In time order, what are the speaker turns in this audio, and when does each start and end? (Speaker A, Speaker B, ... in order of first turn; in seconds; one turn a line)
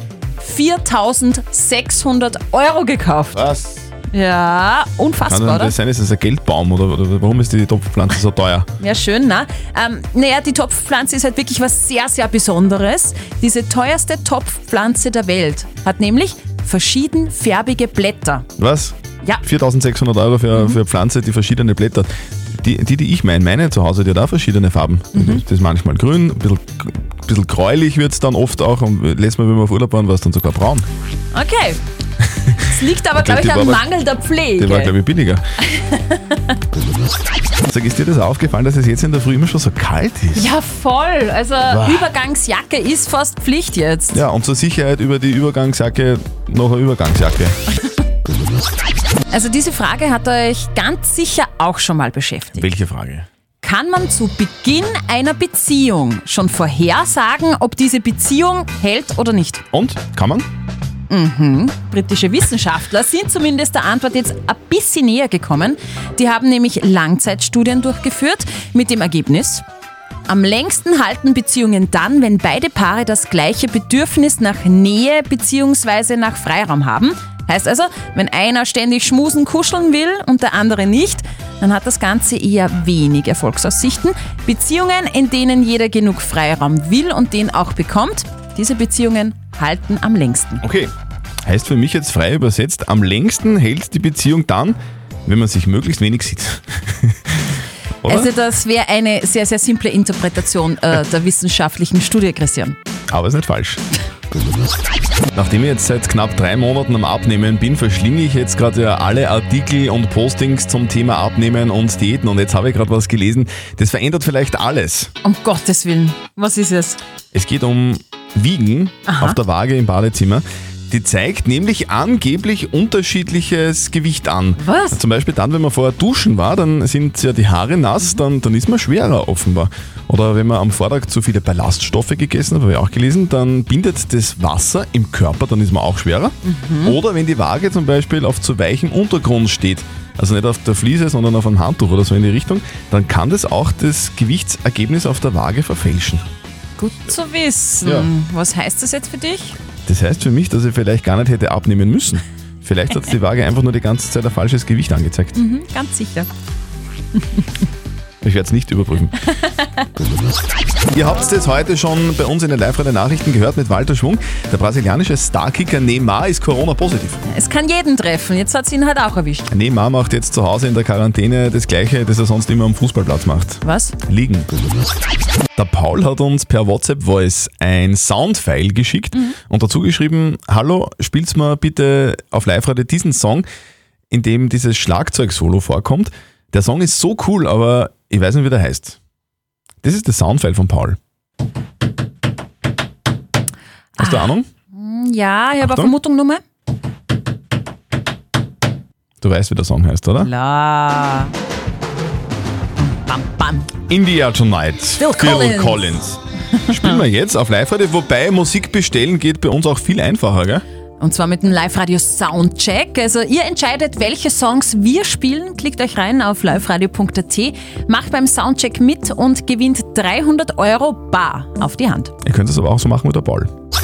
Speaker A: 0.4-3.4
Speaker B: 3.3-3.9
Speaker A: 4.1-5.7
Speaker B: 5.2-8.7
Speaker A: 8.8-18.4
Speaker B: 18.6-30.9
Speaker A: 25.1-25.4
Speaker A: 31.3-31.8
Speaker A: 32.6-34.9
Speaker B: 33.1-33.9
Speaker B: 34.6-35.4
Speaker A: 35.6-36.5
Speaker B: 37.7-40.5
Speaker A: 40.3-44.2
Speaker B: 41.7-42.1
Speaker B: 44.1-47.6
Speaker A: 49.3-52.6
Speaker B: 52.5-53.3
Speaker A: 53.6-59.6
Speaker B: 59.7-60.5
Speaker A: 61.1-69.6
Speaker A: 70.3-90.6
Speaker B: 90.6-90.9
Speaker B: 91.4-98.3
Speaker A: 98.0-102.8
Speaker B: 103.1-103.8
Speaker B: 105.3-115.1
Speaker A: 115.2-117.0
Speaker B: 117.3-146.2
Speaker A: 119.1-119.4
Speaker A: 124.6-125.0
Speaker A: 136.4-137.0
Speaker A: 146.8-149.6
Speaker B: 147.8-148.1
Speaker B: 149.9-155.3
Speaker A: 155.3-156.3
Speaker B: 158.2-159.2
Speaker B: 160.9-167.2
Speaker A: 167.3-169.5
Speaker B: 169.5-174.5
Speaker A: 173.6-173.9
Speaker B: 175.6-183.4
Speaker B: 184.1-189.0
Speaker B: 189.8-191.0
Speaker A: 194.0-196.4
Speaker B: 194.0-194.5
Speaker B: 195.6-195.9
Speaker B: 199.2-200.3
Speaker A: 200.2-201.3
Speaker A: 202.8-203.7
Speaker B: 203.9-210.6
Speaker A: 205.0-206.0
Speaker A: 206.6-207.0
Speaker A: 211.0-222.1
Speaker B: 222.2-223.5